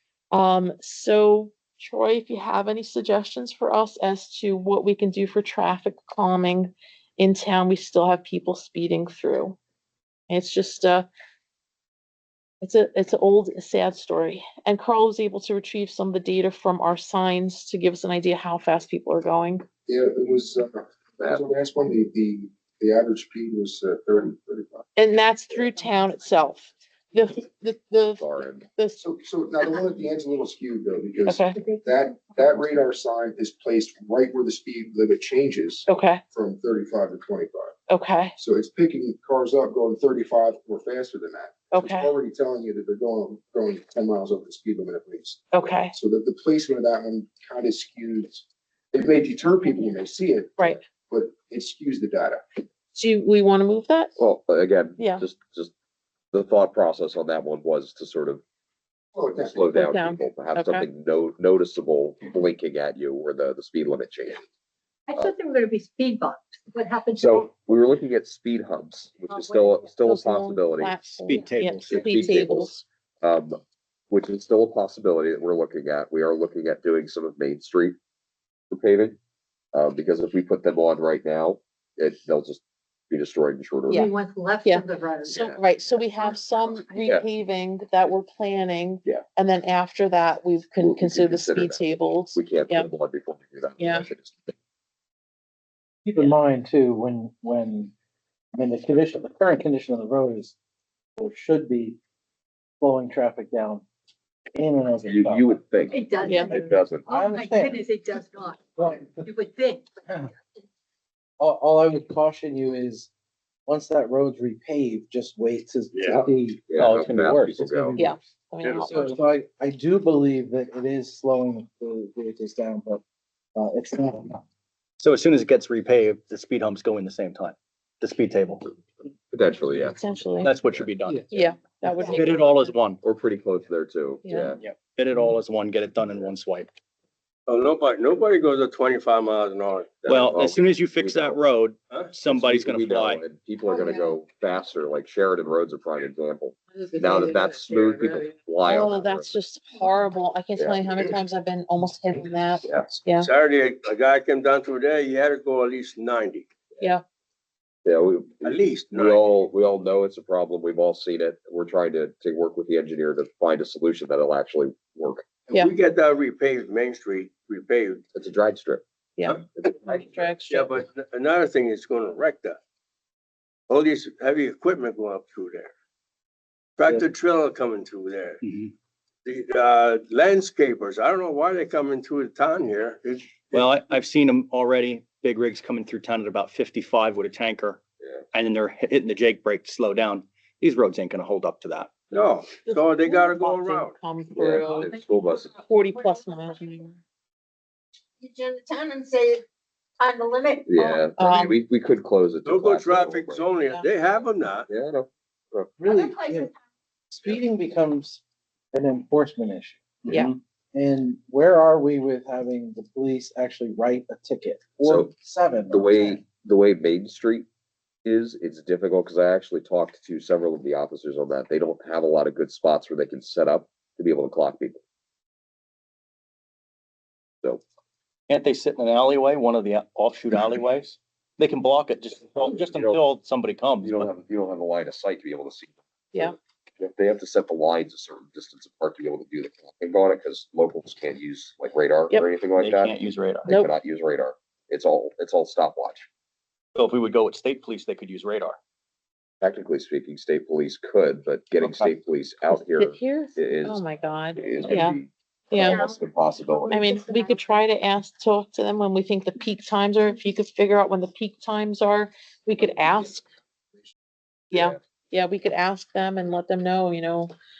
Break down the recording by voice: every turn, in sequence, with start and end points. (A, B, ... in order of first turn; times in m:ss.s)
0:00.3-0:09.6 A
0:10.3-0:11.1 A
0:12.6-0:19.6 A
0:19.8-0:24.8 B
0:25.0-0:29.0 A
0:28.2-0:28.6 C
0:29.0-0:37.7 B
0:31.2-0:31.6 A
0:35.9-0:36.2 A
0:37.9-0:38.3 A
0:38.4-0:45.4 B
0:41.7-0:42.1 A
0:45.5-0:45.9 A
0:45.9-0:52.6 B
0:52.9-0:54.1 A
0:54.2-0:55.7 C
0:56.3-0:58.4 C
0:59.1-0:59.6 B
0:59.4-1:04.4 C
0:59.7-1:00.8 A
1:05.1-1:07.5 D
1:07.2-1:10.9 C
1:09.3-1:09.9 D
1:10.0-1:12.8 A
1:11.0-1:12.1 E
1:11.9-1:13.6 C
1:14.1-1:18.0 C
1:18.7-1:19.2 C
1:19.7-1:24.1 C
1:23.9-1:27.0 D
1:24.6-1:32.9 A
1:25.4-1:25.6 C
1:30.8-1:34.5 C
1:33.8-1:34.1 A
1:36.0-1:37.9 F
1:38.5-1:40.5 F
1:41.2-1:42.0 F
1:42.8-1:43.8 F
1:44.5-1:45.5 F
1:45.0-1:47.1 C
1:45.9-1:49.9 D
1:46.2-1:46.5 A
1:47.0-1:47.9 F
1:48.7-1:49.3 F
1:51.4-1:53.1 F
1:53.6-1:58.1 F
1:55.9-1:56.3 G
1:56.1-1:58.0 C
1:58.0-1:59.2 A
1:58.6-1:59.2 G
1:58.8-2:03.0 F
2:03.5-2:04.4 F
2:05.0-2:08.6 E
2:09.3-2:10.0 C
2:09.9-2:10.5 A
2:10.4-2:11.2 E
2:11.3-2:12.5 A
2:12.0-2:13.0 E
2:13.0-2:14.6 C
2:14.2-2:14.5 A
2:14.6-2:16.7 E
2:17.5-2:20.0 G
2:20.0-2:21.4 C
2:20.0-2:23.2 E
2:22.2-2:29.4 C
2:23.6-2:24.2 D
2:26.7-2:28.3 D
2:28.6-2:33.3 A
2:30.6-2:31.0 C
2:32.6-2:33.0 C
2:33.2-2:36.5 G
2:37.8-2:45.2 C
2:38.4-2:39.2 G
2:45.5-2:48.0 G
2:48.1-2:48.8 C
2:49.2-2:50.7 A
2:49.6-2:50.3 C
2:50.5-2:52.6 G
2:53.7-2:55.7 G
2:56.8-2:58.4 G
2:58.4-2:58.7 E
2:59.2-3:03.8 G
3:03.5-3:07.8 E
3:08.3-3:12.0 E
3:12.1-3:13.9 G
3:12.6-3:17.0 A
3:14.3-3:15.5 C
3:18.2-3:19.4 D
3:20.0-3:21.0 D
3:20.6-3:23.4 C
3:21.2-3:21.6 A
3:22.4-3:24.7 G
3:24.7-3:25.7 C
3:25.8-3:26.5 F
3:26.0-3:26.5 D
3:27.1-3:28.2 F
3:28.7-3:36.2 F
3:30.1-3:30.3 E
3:34.8-3:35.1 C
3:35.7-3:37.4 C
3:38.0-3:44.8 C
3:48.3-3:54.1 E
3:52.4-3:53.0 C
3:53.8-4:06.1 C
4:02.6-4:03.5 E
4:06.7-4:08.6 E
4:09.4-4:13.8 C
4:11.6-4:11.9 E
4:12.5-4:15.0 A
4:14.4-4:16.8 C
4:15.5-4:15.8 A
4:15.6-4:16.0 D
4:16.5-4:17.4 D
4:16.7-4:23.2 A
4:24.5-4:27.3 A